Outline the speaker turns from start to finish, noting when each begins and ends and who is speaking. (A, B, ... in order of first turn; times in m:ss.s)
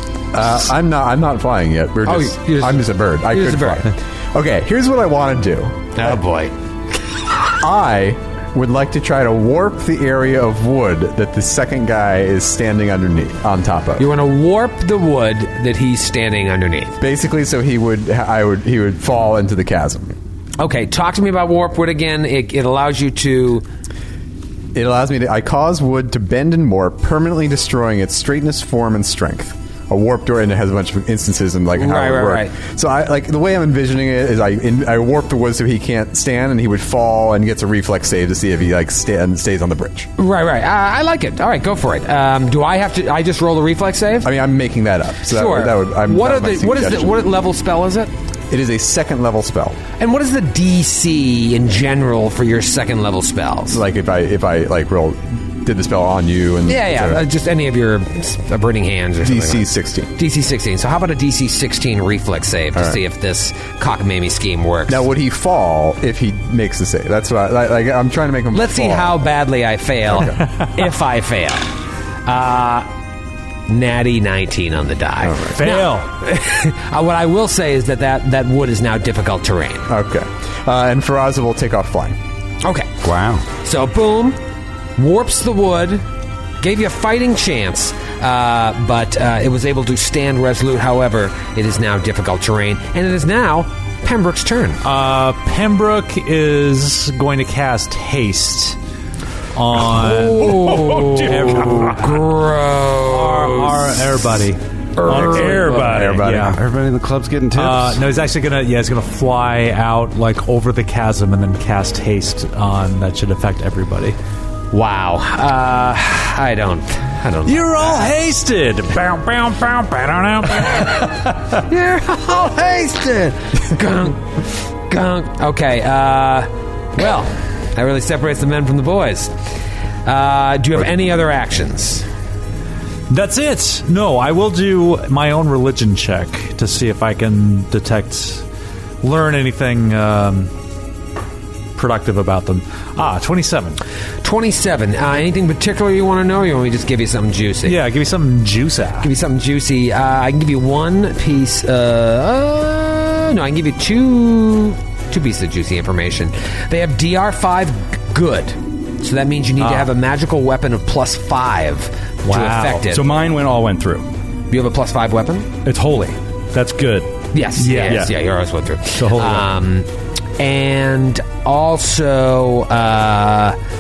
0:00.3-0:05.9 A
0:02.0-0:03.9 B
0:06.0-0:06.5 B
0:07.6-0:14.1 A
0:14.0-0:17.0 B
0:17.0-0:20.1 A
0:20.6-0:23.6 B
0:24.8-0:40.1 A
0:31.8-0:32.5 B
0:40.2-0:44.3 B
0:44.2-0:47.2 A
0:45.3-0:48.1 B
0:48.5-0:49.8 A
0:50.0-0:53.8 B
0:53.7-0:57.2 A
0:56.6-1:05.1 B
0:59.2-1:00.1 A
1:04.9-1:09.2 A
1:08.5-1:11.7 B
1:10.1-1:10.4 A
1:12.3-1:12.9 B
1:13.7-1:19.9 B
1:15.2-1:15.6 A
1:15.5-1:16.1 C
1:19.9-1:22.2 A
1:22.6-1:22.9 B
1:23.0-1:23.4 D
1:23.5-1:24.4 B
1:25.0-1:26.0 B
1:26.6-1:34.8 B
1:34.8-1:38.8 C
1:39.6-1:42.2 C
1:39.9-1:44.0 B
1:43.1-1:46.6 C
1:45.0-1:46.0 B
1:45.1-1:46.2 E
1:45.1-1:46.6 A
1:46.3-1:48.0 D
1:47.6-1:54.2 C
1:54.7-1:58.1 B
1:57.5-2:01.3 C
2:00.8-2:09.3 B
2:10.0-2:12.0 B
2:13.1-2:18.4 C
2:19.0-2:20.5 C
2:21.8-2:23.8 C
2:24.2-2:27.8 B
2:27.6-2:29.1 C
2:29.0-2:43.0 B
2:42.3-2:42.8 C
2:42.7-2:44.1 E
2:44.5-2:45.5 B
2:45.6-2:48.1 E
2:47.3-2:49.9 B
2:47.6-2:48.1 C
2:48.9-2:49.5 E
2:50.4-2:53.6 B